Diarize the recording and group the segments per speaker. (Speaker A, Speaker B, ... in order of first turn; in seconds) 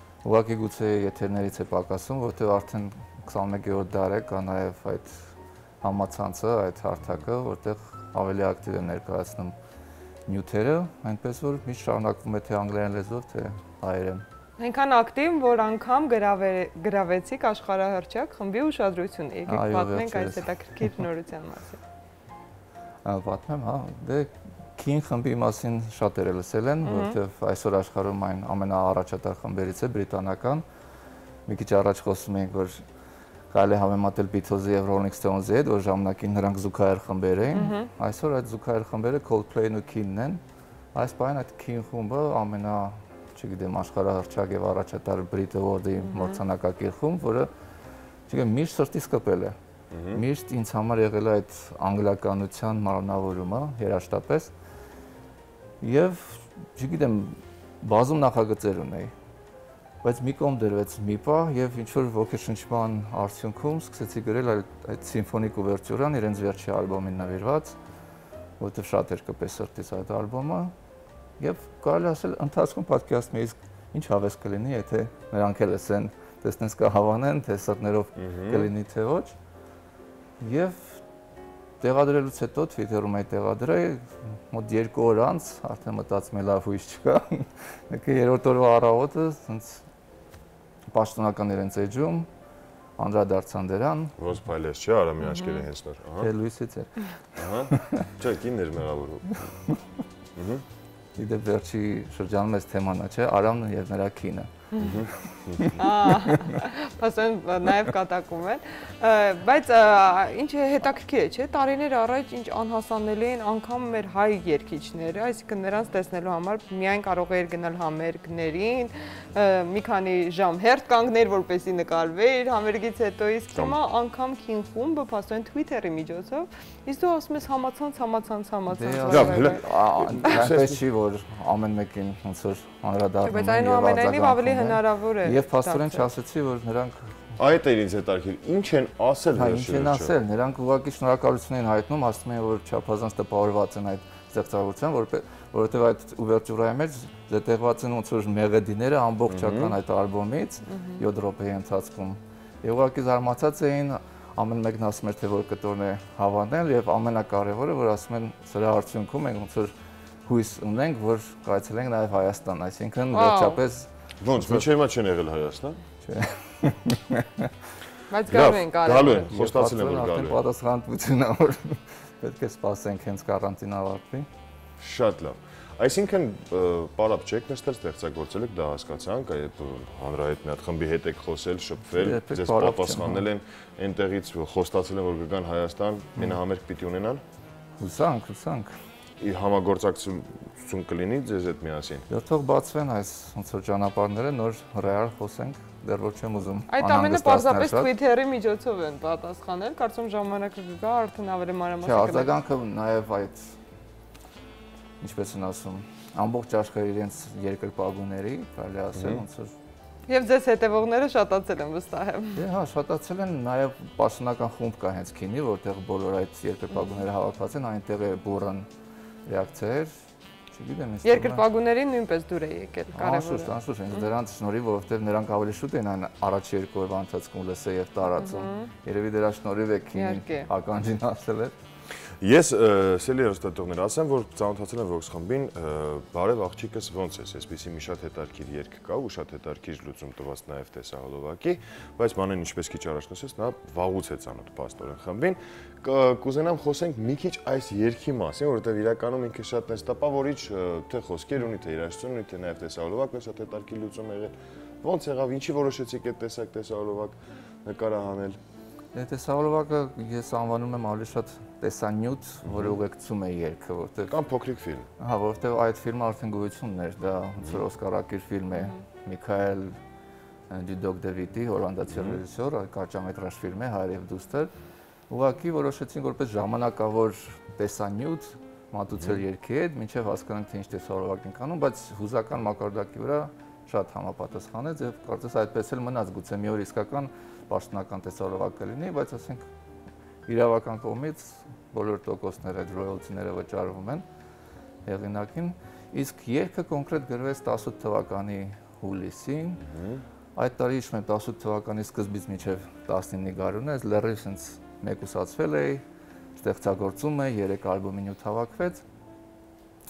Speaker A: 0.2-9.6, 10.3-14.2, 19.5-21.0, 23.0-30.6, 31.5-32.8, 33.5-40.4, 41.0-47.5, 48.3-49.5, 50.1-54.5, 55.8-59.1, 60.0-67.8, 68.6-70.7, 71.4-79.3, 80.4-81.0, 81.8-89.8, 90.9-92.3, 93.0-94.1, 96.2-98.1, 101.2-104.5, 105.0-106.6, 128.7-137.2, 139.3-159.7, 160.2-164.7, 166.0-167.5, 169.0-174.3, 181.9-183.2, 187.8-188.7, 192.1-197.9, 201.8-203.5, 205.0-209.5, 212.3-218.7, 219.2-219.9, 220.5-221.5, 222.9-231.6, 258.9-264.2, 265.0-269.8, 270.5-274.5, 275.1-289.4, 290.3-294.0, 294.9-299.6, 300.4-305.8, 306.4-308.8
Speaker B: 14.6-21.8, 26.8-27.2, 37.5-37.9, 46.0-46.4, 95.2-95.7, 105.8-129.7, 133.2-136.1, 150.7-151.0, 163.1-163.6, 168.1-169.3, 196.7-202.3, 210.1-212.4, 221.0-224.0, 228.2-228.7, 229.9-230.5
Speaker C: 49.9-50.2, 78.2-78.7, 94.2-96.3, 97.3-99.5, 100.3-100.6, 104.8-105.8, 123.5-123.8, 129.1-130.8, 137.4-140.1, 149.3-149.8, 164.2-165.8, 168.3-170.4, 174.8-187.2, 189.2-192.1, 208.9-209.2, 232.2-258.4, 262.4-262.8, 264.1-264.9, 271.9-272.2, 299.6-300.0